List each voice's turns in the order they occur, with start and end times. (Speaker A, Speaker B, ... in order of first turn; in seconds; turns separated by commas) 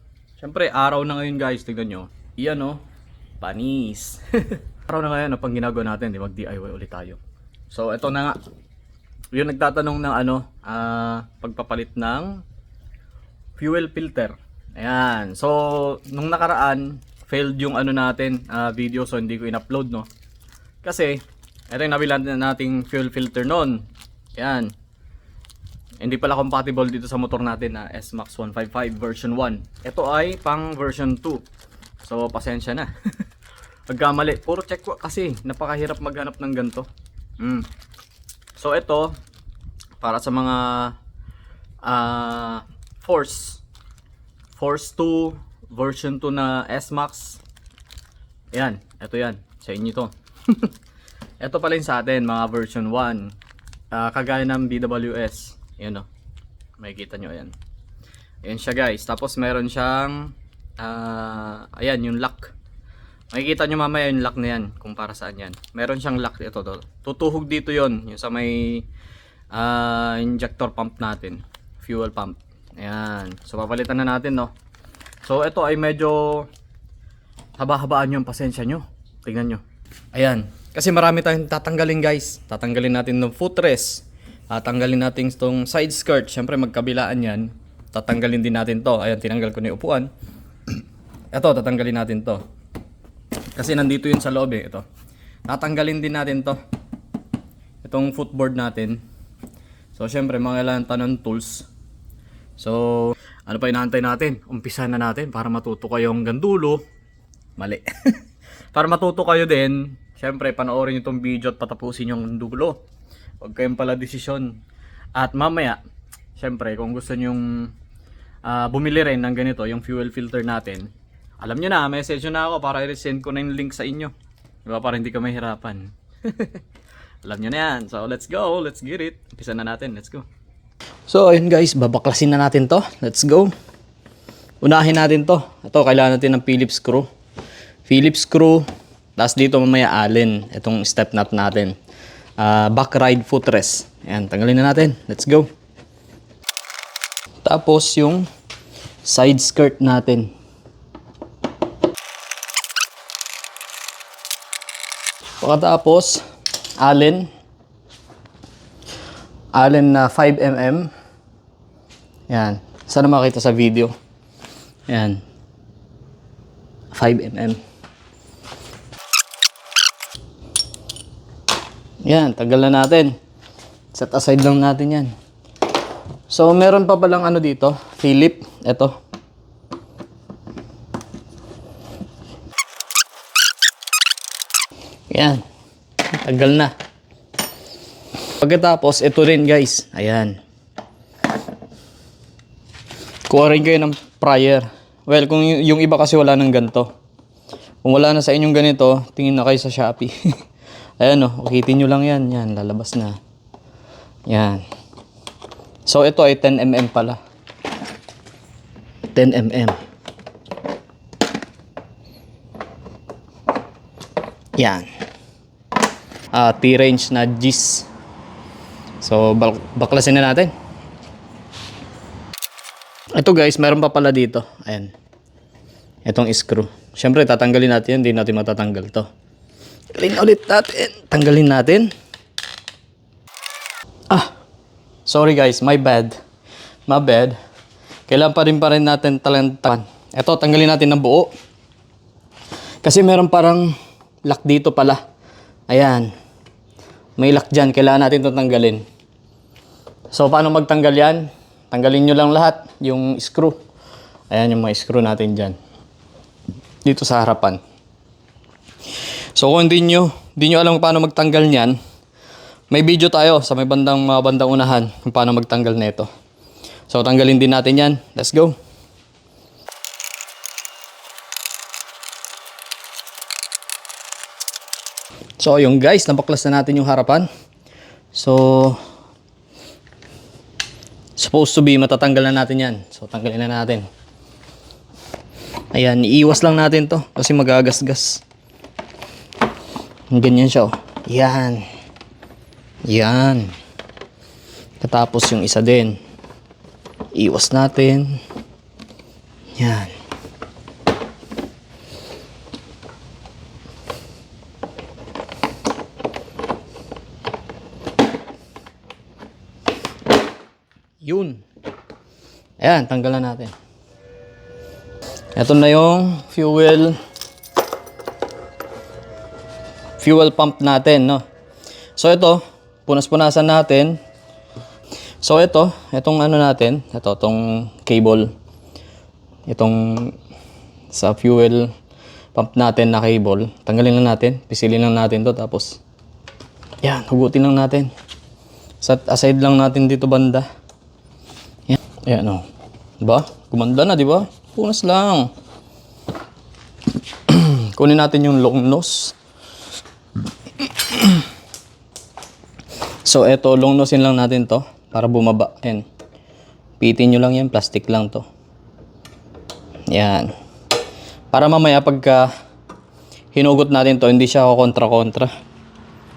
Speaker A: 0.4-2.8, Speaker A: 3.4-7.2, Speaker A: 7.7-8.4, Speaker A: 9.3-12.4, Speaker A: 13.6-20.1, Speaker A: 20.8-23.9, Speaker A: 24.4-24.7, Speaker A: 26.0-31.4, Speaker A: 32.0-32.9, Speaker A: 33.9-36.9, Speaker A: 37.4-37.7, Speaker A: 38.5-39.1, Speaker A: 40.0-41.0, Speaker A: 41.8-43.6, Speaker A: 44.5-47.4, Speaker A: 48.5-50.7, Speaker A: 51.4-53.3, Speaker A: 53.9-56.0, Speaker A: 56.8-57.5, Speaker A: 58.4-62.5, Speaker A: 63.3-68.8, Speaker A: 69.5-74.5, Speaker A: 75.2-76.5, Speaker A: 77.6-79.6, Speaker A: 80.1-90.1, Speaker A: 91.3-92.4, Speaker A: 93.5-94.8, Speaker A: 95.5-96.6, Speaker A: 97.8-99.0, Speaker A: 99.9-101.7, Speaker A: 102.6-106.8, Speaker A: 107.6-108.2, Speaker A: 108.7-112.8, Speaker A: 113.4-114.6, Speaker A: 115.2-115.8, Speaker A: 116.4-117.7, Speaker A: 118.4-124.1, Speaker A: 124.7-126.6, Speaker A: 127.2-130.2, Speaker A: 131.1-133.5, Speaker A: 134.6-137.1, Speaker A: 137.9-138.7, Speaker A: 139.2-141.8, Speaker A: 142.4-145.5, Speaker A: 147.4-148.3, Speaker A: 149.0-150.3, Speaker A: 155.4-156.2, Speaker A: 156.8-157.3, Speaker A: 159.5-160.9, Speaker A: 162.3-163.9, Speaker A: 164.9-165.2, Speaker A: 166.9-167.6, Speaker A: 172.0-173.1, Speaker A: 173.9-175.1, Speaker A: 176.3-178.9, Speaker A: 185.1-185.4, Speaker A: 186.1-186.7, Speaker A: 188.4-190.4, Speaker A: 193.3-196.9, Speaker A: 197.8-200.3, Speaker A: 201.0-203.2, Speaker A: 204.3-204.6, Speaker A: 205.8-207.2, Speaker A: 209.1-209.8, Speaker A: 214.6-214.8, Speaker A: 216.3-217.9, Speaker A: 219.0-220.5, Speaker A: 223.2-224.9, Speaker A: 226.0-229.1, Speaker A: 229.9-231.9, Speaker A: 235.1-236.1, Speaker A: 236.9-237.3, Speaker A: 238.1-241.3, Speaker A: 242.8-243.7, Speaker A: 244.2-245.0, Speaker A: 245.7-246.1, Speaker A: 247.2-248.8, Speaker A: 250.1-253.6, Speaker A: 254.3-255.6, Speaker A: 256.8-257.6, Speaker A: 259.4-261.8, Speaker A: 262.7-266.1, Speaker A: 266.9-268.5, Speaker A: 275.4-277.3, Speaker A: 278.1-278.8, Speaker A: 281.2-283.9, Speaker A: 285.7-288.2, Speaker A: 290.1-291.6, Speaker A: 292.9-293.5, Speaker A: 294.8-296.0, Speaker A: 297.1-298.2, Speaker A: 299.6-299.9, Speaker A: 311.0-311.4, Speaker A: 312.6-313.5, Speaker A: 315.4-317.0, Speaker A: 320.0-321.2, Speaker A: 322.0-324.0, Speaker A: 325.2-328.3, Speaker A: 329.5-330.1, Speaker A: 330.9-331.7, Speaker A: 332.3-335.8, Speaker A: 336.8-337.9, Speaker A: 338.8-340.4, Speaker A: 341.7-342.4, Speaker A: 343.0-345.3, Speaker A: 347.3-349.1, Speaker A: 350.6-351.2, Speaker A: 353.0-355.9, Speaker A: 356.8-358.2, Speaker A: 359.9-360.3, Speaker A: 361.3-362.3, Speaker A: 363.3-365.3